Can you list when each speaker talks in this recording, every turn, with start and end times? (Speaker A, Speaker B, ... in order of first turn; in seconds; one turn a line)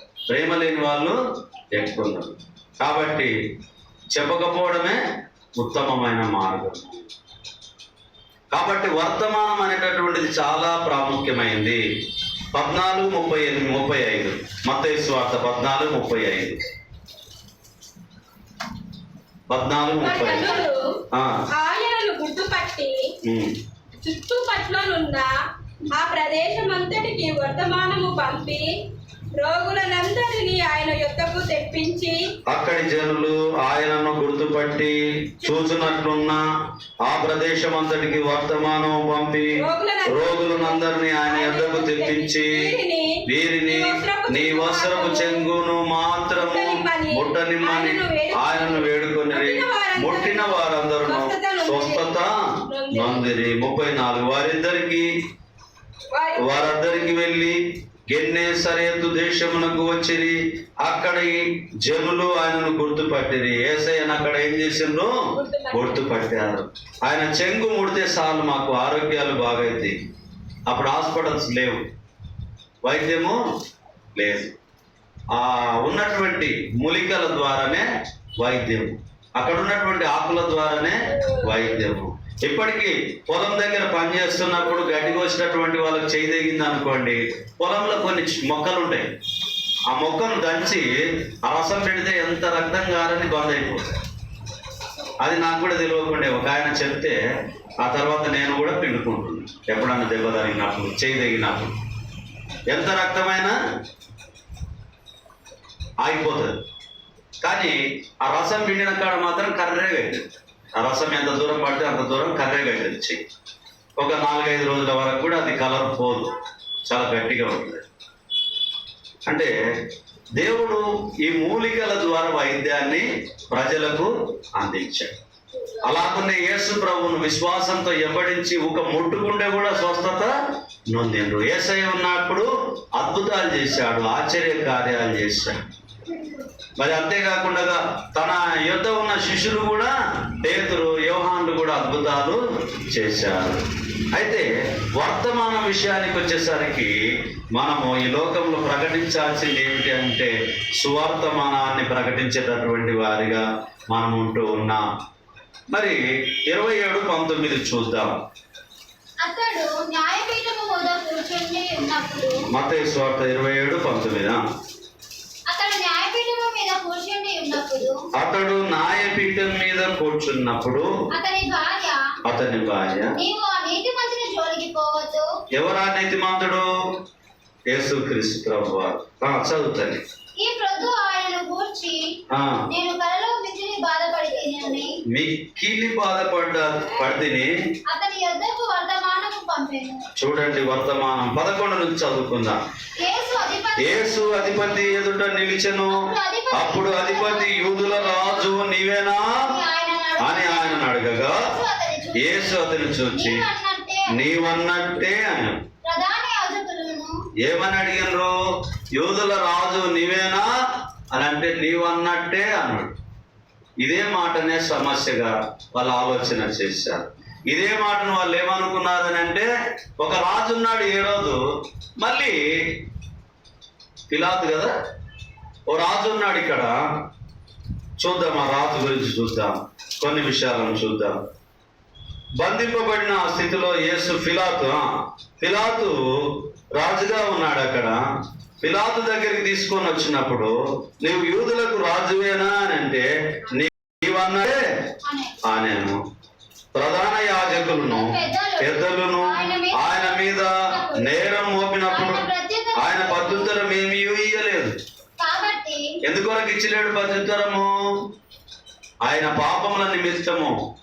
Speaker A: 0.3-1.2
Speaker A: 1.7-3.3
Speaker A: 4.1-5.0
Speaker A: 5.6-7.0
Speaker A: 8.5-11.8
Speaker A: 12.5-16.6
Speaker A: 19.5-20.6
Speaker B: 20.0-20.8
Speaker A: 21.1-21.4
Speaker B: 21.5-23.1
Speaker A: 23.2-23.5
Speaker B: 24.0-25.3
Speaker B: 25.9-28.7
Speaker B: 29.4-32.2
Speaker A: 32.5-36.4
Speaker A: 37.1-42.7
Speaker B: 39.6-45.5
Speaker A: 43.2-52.3
Speaker B: 46.3-52.1
Speaker B: 52.7-53.3
Speaker A: 52.9-55.1
Speaker B: 56.1-56.8
Speaker A: 56.4-57.6
Speaker A: 58.1-65.1
Speaker B: 65.4-66.0
Speaker A: 65.7-70.0
Speaker A: 70.7-71.8
Speaker A: 72.8-73.4
Speaker A: 74.2-74.5
Speaker A: 75.3-77.9
Speaker A: 78.4-89.1
Speaker A: 89.9-94.0
Speaker A: 95.2-97.2
Speaker A: 97.8-101.7
Speaker A: 102.7-103.5
Speaker A: 106.0-106.5
Speaker A: 107.4-113.2
Speaker A: 114.0-116.3
Speaker A: 116.9-117.8
Speaker A: 119.3-119.5
Speaker A: 120.4-125.2
Speaker A: 125.8-130.3
Speaker A: 130.9-135.6
Speaker A: 136.8-143.6
Speaker A: 144.1-146.9
Speaker A: 147.6-154.8
Speaker A: 155.7-158.2
Speaker C: 159.2-162.4
Speaker A: 162.5-164.4
Speaker C: 165.5-168.0
Speaker A: 168.2-170.9
Speaker C: 171.1-172.0
Speaker A: 172.3-173.2
Speaker C: 173.2-175.3
Speaker A: 175.6-176.7
Speaker A: 177.7-180.0
Speaker C: 180.4-182.0
Speaker A: 182.3-182.7
Speaker C: 182.7-184.9
Speaker A: 185.1-187.5
Speaker C: 187.9-190.1
Speaker A: 190.2-192.6
Speaker C: 193.0-195.1
Speaker A: 193.8-199.3
Speaker C: 195.9-198.6
Speaker C: 199.4-204.3
Speaker A: 200.2-201.4
Speaker A: 202.2-203.4
Speaker A: 204.1-205.6
Speaker C: 205.8-207.1
Speaker A: 207.4-208.3
Speaker A: 209.0-210.5
Speaker A: 211.1-212.9
Speaker A: 213.8-221.4
Speaker A: 222.0-222.4
Speaker A: 224.1-224.7
Speaker A: 225.7-226.8
Speaker A: 228.0-231.2
Speaker A: 232.4-234.9
Speaker A: 235.4-236.0
Speaker A: 236.8-238.0
Speaker A: 238.6-244.6
Speaker C: 245.0-245.4
Speaker A: 245.4-246.0
Speaker A: 246.8-252.2
Speaker C: 247.5-251.3
Speaker C: 251.9-253.6
Speaker A: 252.8-254.7
Speaker C: 255.2-255.8
Speaker A: 256.0-257.7
Speaker A: 259.1-260.5